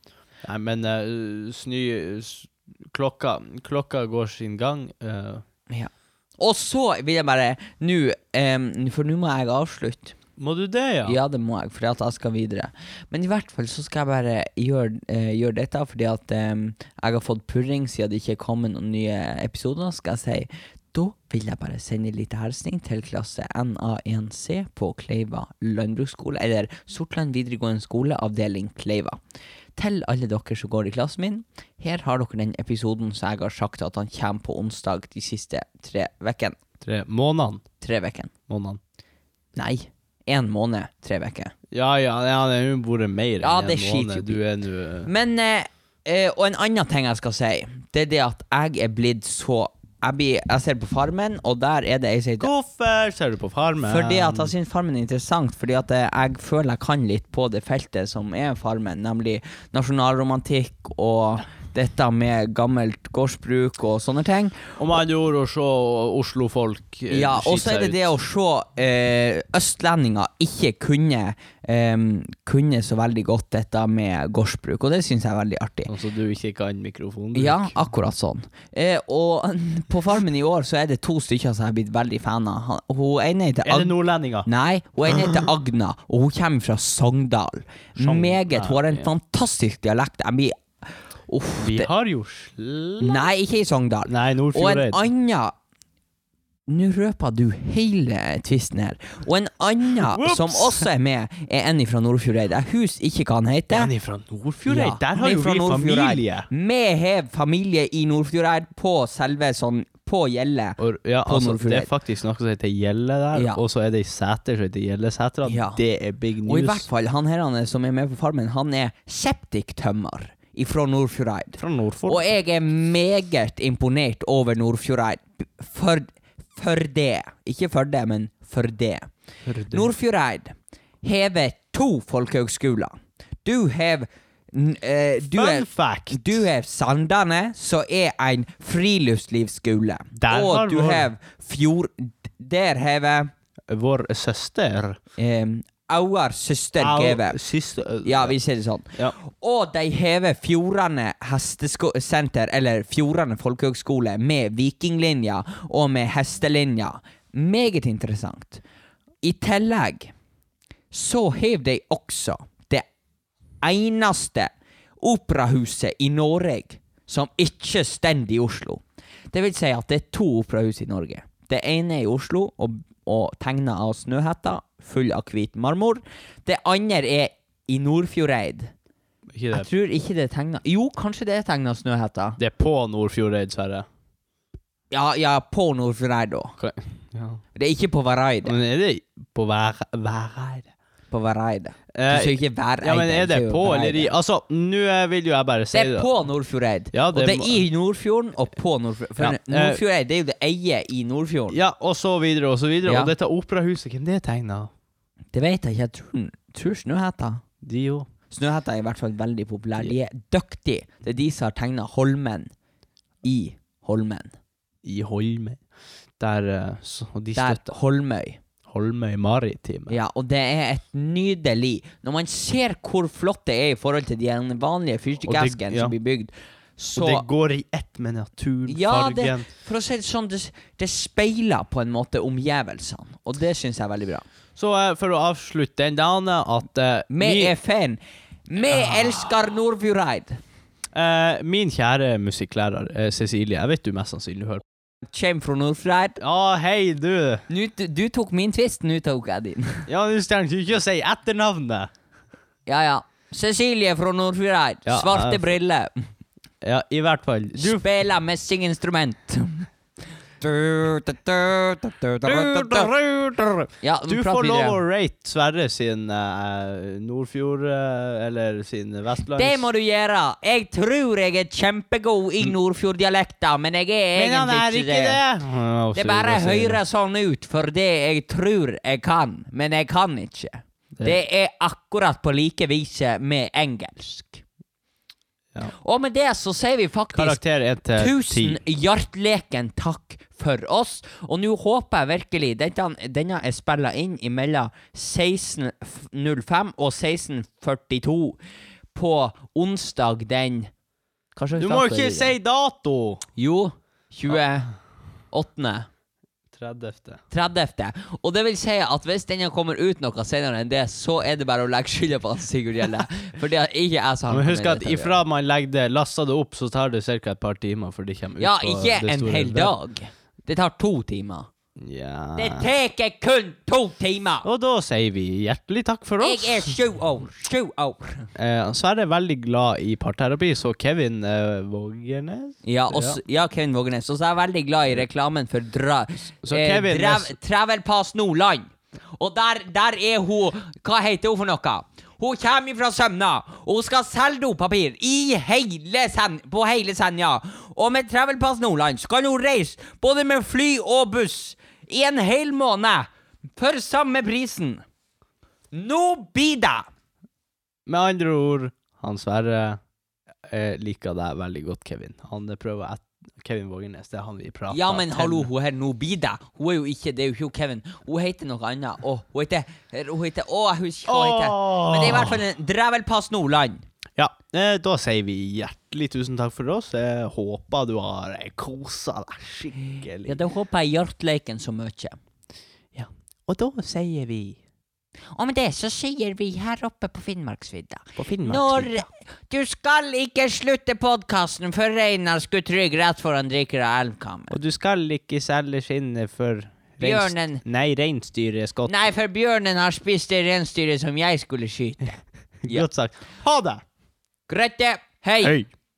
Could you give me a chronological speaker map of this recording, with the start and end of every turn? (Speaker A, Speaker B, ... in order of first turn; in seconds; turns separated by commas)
Speaker A: 0.4-5.4, Speaker B: 5.7-10.2, Speaker A: 10.4-11.2, Speaker B: 11.1-29.2, Speaker B: 29.8-36.6, Speaker A: 36.8-37.6, Speaker B: 37.8-38.3, Speaker A: 38.5-38.8, Speaker B: 39.6-41.5, Speaker A: 41.7-45.1, Speaker B: 43.4-44.4, Speaker B: 45.1-52.5, Speaker A: 52.4-54.5, Speaker B: 53.8-64.8, Speaker A: 64.8-68.0, Speaker B: 67.1-75.9, Speaker A: 75.9-77.8, Speaker B: 77.3-90.5, Speaker A: 83.7-84.5, Speaker A: 85.1-85.4, Speaker A: 88.0-89.1, Speaker B: 91.3-91.9, Speaker A: 91.6-93.2, Speaker B: 93.0-95.5, Speaker A: 94.1-95.0, Speaker B: 96.7-103.9, Speaker A: 100.1-100.9, Speaker A: 103.7-106.5, Speaker B: 104.7-111.9, Speaker A: 110.8-116.9, Speaker B: 113.3-113.6, Speaker B: 115.5-115.8, Speaker B: 116.5-129.1, Speaker A: 121.6-122.2, Speaker A: 129.5-129.9, Speaker B: 129.7-143.3, Speaker A: 135.3-136.5, Speaker A: 140.2-141.1, Speaker A: 143.7-145.0, Speaker B: 145.2-147.4, Speaker A: 146.8-148.4, Speaker B: 148.0-158.6, Speaker B: 159.2-160.1, Speaker B: 160.9-162.8, Speaker B: 163.6-168.8, Speaker B: 169.3-178.7, Speaker A: 179.3-179.7, Speaker B: 179.5-182.4, Speaker A: 182.4-183.9, Speaker B: 184.9-186.6, Speaker A: 186.6-187.4, Speaker B: 187.6-188.6, Speaker A: 188.4-190.7, Speaker B: 191.1-194.2, Speaker A: 191.9-196.1, Speaker B: 195.7-201.6, Speaker A: 196.9-197.6, Speaker A: 199.2-199.8, Speaker A: 201.5-204.7, Speaker B: 202.8-203.1, Speaker B: 205.3-207.4, Speaker A: 207.6-208.1, Speaker B: 208.3-212.5, Speaker B: 213.2-214.3, Speaker A: 214.8-215.6, Speaker A: 216.2-217.7, Speaker B: 217.4-218.4, Speaker A: 218.7-220.0, Speaker B: 219.9-227.3, Speaker A: 225.2-225.9, Speaker A: 226.9-229.5, Speaker B: 228.7-234.2, Speaker A: 234.6-237.6, Speaker B: 237.1-240.4, Speaker A: 240.9-244.6, Speaker B: 245.0-246.2, Speaker A: 246.2-247.5, Speaker B: 247.5-249.9, Speaker A: 249.9-251.9, Speaker B: 252.7-256.1, Speaker A: 254.9-255.6, Speaker A: 256.6-257.8, Speaker B: 257.6-259.7, Speaker B: 260.4-262.9, Speaker A: 262.3-269.6, Speaker B: 263.8-264.8, Speaker B: 269.4-275.2, Speaker A: 274.1-276.8, Speaker B: 275.9-284.4, Speaker B: 285.8-287.4, Speaker A: 287.1-288.6, Speaker B: 288.0-298.4, Speaker B: 298.9-300.7, Speaker B: 301.4-302.3, Speaker A: 301.6-303.2, Speaker B: 303.4-304.7, Speaker B: 305.3-305.9, Speaker A: 306.5-307.2, Speaker B: 307.3-315.2, Speaker A: 314.3-319.7, Speaker B: 318.4-321.5, Speaker A: 321.8-322.7, Speaker B: 322.4-324.5, Speaker A: 324.4-326.8, Speaker B: 326.2-328.3, Speaker A: 328.4-333.2, Speaker B: 332.6-354.8, Speaker A: 336.4-337.4, Speaker B: 355.7-356.9, Speaker A: 357.9-359.8, Speaker A: 360.4-365.5, Speaker B: 364.7-373.8, Speaker A: 371.1-372.4, Speaker A: 374.2-380.4, Speaker B: 380.2-382.2, Speaker A: 382.9-384.6, Speaker B: 385.4-394.6, Speaker A: 388.2-388.9, Speaker A: 394.5-399.0, Speaker B: 397.0-397.6, Speaker B: 398.9-402.9, Speaker A: 402.6-403.8, Speaker B: 404.5-405.6, Speaker A: 405.4-405.7